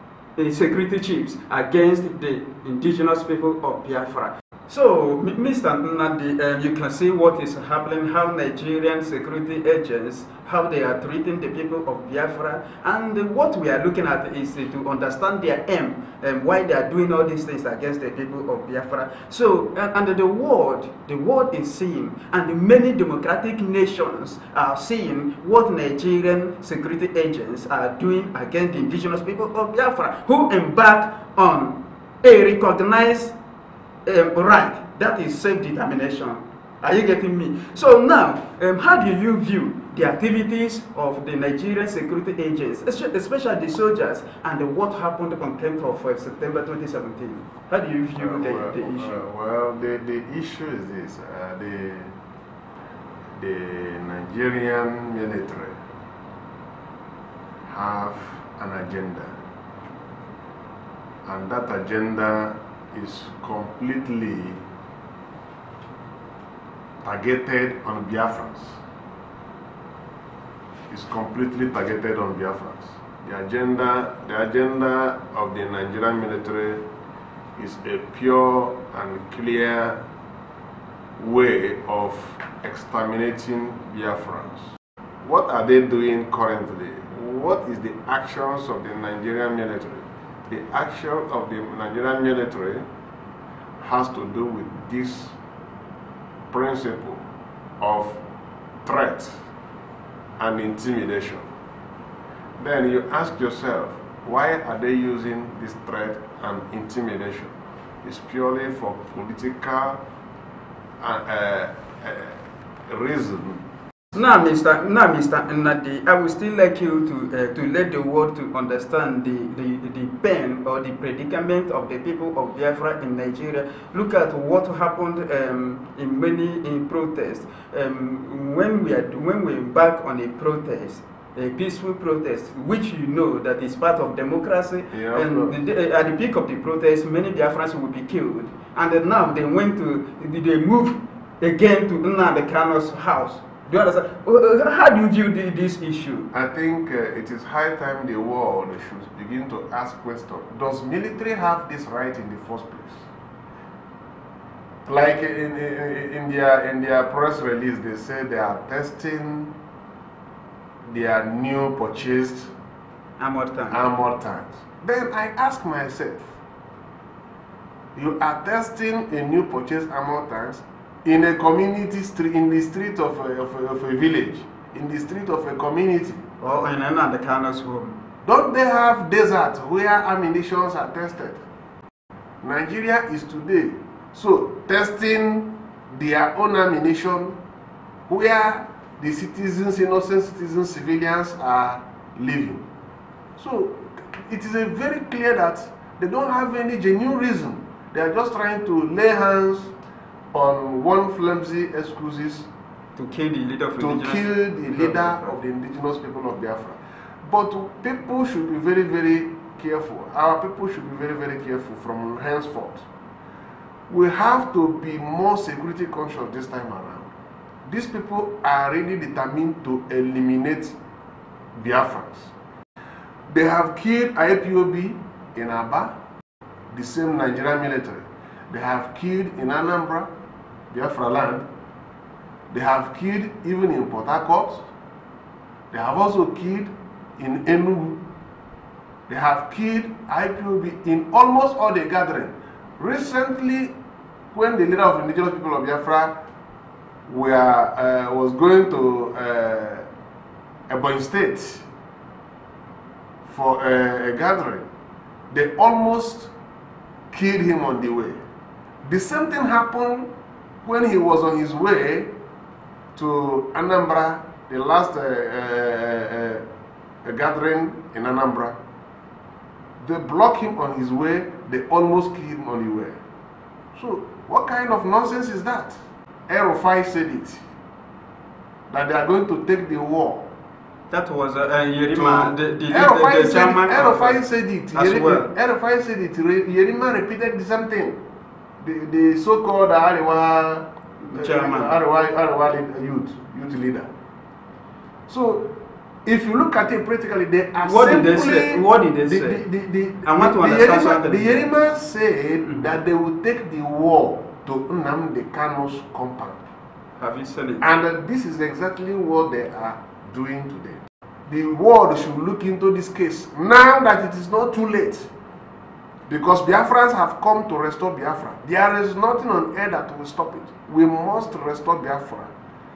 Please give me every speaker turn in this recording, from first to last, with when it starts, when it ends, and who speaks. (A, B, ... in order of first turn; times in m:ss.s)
0:00.4-0:33.3 A
0:34.1-0:49.2 A
0:48.2-0:52.1 B
0:53.4-0:55.8 B
0:57.6-0:59.4 B
1:01.2-1:04.6 B
1:07.0-1:08.8 B
1:10.9-1:16.9 B
1:17.6-1:20.0 B
1:21.2-1:24.7 B
1:25.2-1:32.9 B
1:33.8-1:35.4 B
1:36.5-1:37.2 B
1:37.8-1:38.2 B
1:38.8-1:39.4 B
1:40.4-1:41.5 B
1:42.6-1:50.0 B
1:51.0-1:53.6 B
1:54.1-2:26.3 A
2:14.9-2:15.6 B
2:26.3-2:33.0 B
2:34.9-2:39.5 B
2:40.8-2:42.5 B
2:43.2-2:44.0 A
2:43.7-2:46.3 B
2:48.0-2:56.2 B
2:56.4-2:58.0 A
2:58.2-3:01.4 B
3:02.4-3:07.4 B
3:08.1-3:12.7 B
3:13.4-3:19.7 B
3:20.3-3:22.5 B
3:23.0-3:25.4 A
3:23.8-3:32.8 B
3:33.9-3:37.1 B
3:37.7-3:40.8 B
3:41.5-3:42.3 B
3:43.3-3:45.9 B
3:46.7-3:50.1 B
3:50.7-3:51.4 B
3:52.5-3:54.6 B
3:55.7-3:58.0 B
3:59.1-4:03.7 B
4:04.3-4:06.2 B
4:07.1-4:09.9 B
4:10.7-4:11.6 B
4:13.3-4:14.7 B
4:15.3-4:16.3 B
4:17.1-4:18.2 B
4:18.8-4:20.1 B
4:20.6-4:22.1 B
4:23.0-4:26.4 B
4:27.0-4:28.6 B
4:29.8-4:33.0 B
4:33.8-4:37.4 B
4:38.7-4:40.3 B
4:40.9-4:45.3 A
4:42.0-4:48.0 B
4:48.6-4:53.9 B
4:51.0-4:51.7 A
4:55.1-4:55.5 B
4:56.0-5:06.4 B
4:57.6-4:59.4 A
5:00.0-5:01.5 A
5:07.0-5:07.7 A
5:07.6-5:15.1 B
5:16.1-5:22.3 B